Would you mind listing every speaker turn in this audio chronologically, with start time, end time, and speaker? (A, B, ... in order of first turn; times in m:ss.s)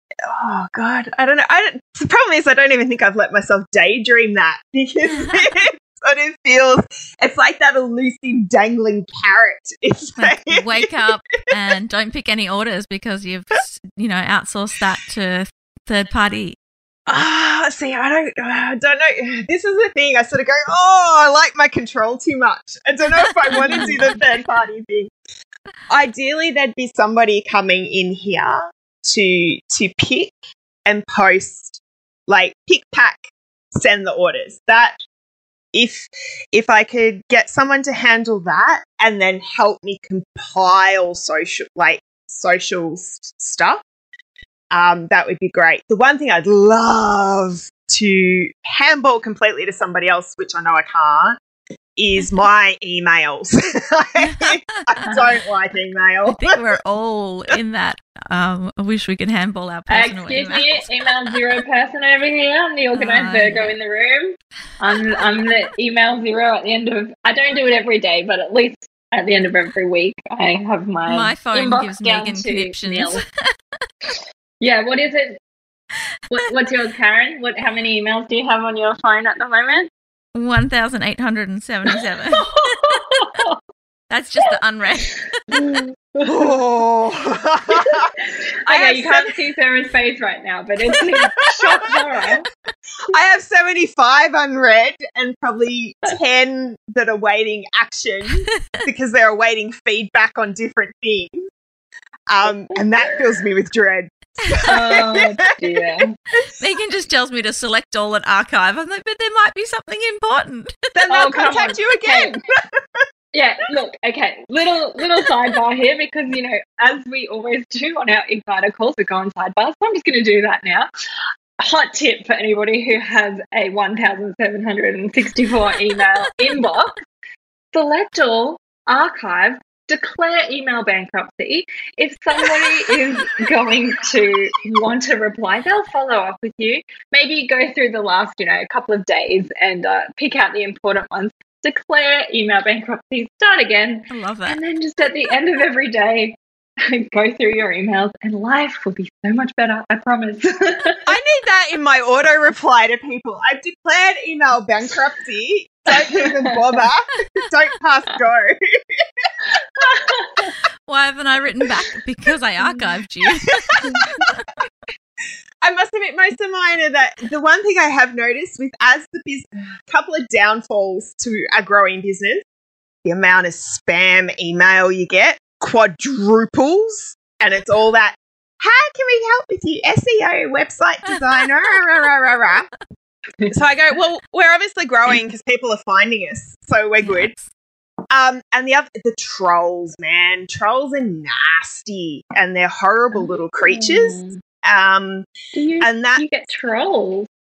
0:00.2-0:11.0 A
0:05.1-0:05.5 B
0:10.2-0:16.6 B
0:17.1-0:25.1 A
0:23.6-0:24.1 B
0:23.6-0:24.0 C
0:25.9-0:35.0 A
0:35.7-0:43.8 A
0:44.7-0:51.4 A
0:52.0-0:56.6 A
0:54.2-0:54.9 B
0:56.3-1:01.5 B
0:59.9-1:13.2 C
1:03.0-1:03.7 B
1:11.1-1:13.5 B
1:14.6-1:15.4 C
1:16.3-1:19.9 C
1:20.4-1:23.3 B
1:22.4-1:23.6 C
1:24.1-1:25.6 B
1:25.5-1:26.5 C
1:26.2-1:28.1 A
1:27.7-1:32.5 C
1:28.7-1:29.3 A
1:31.1-1:32.0 A
1:33.1-1:41.4 A
1:38.5-1:38.8 B
1:42.3-1:45.8 A
1:42.4-1:43.2 C
1:44.7-1:46.1 C
1:46.5-1:50.9 B
1:51.0-1:53.0 A
1:51.1-1:52.3 C
1:53.3-2:00.9 C
2:01.6-2:07.0 C
2:07.7-2:31.0 C
2:24.1-2:24.6 B
2:31.0-2:39.8 A
2:35.9-2:36.8 C
2:39.5-2:40.6 C
2:40.9-2:44.5 B
2:43.7-2:44.3 A
2:45.6-2:52.4 A
2:53.0-3:02.7 A
3:03.5-3:07.3 A
3:07.0-3:07.5 B
3:08.1-3:15.3 A
3:13.1-3:14.4 C
3:15.5-3:17.3 C
3:15.8-3:16.2 A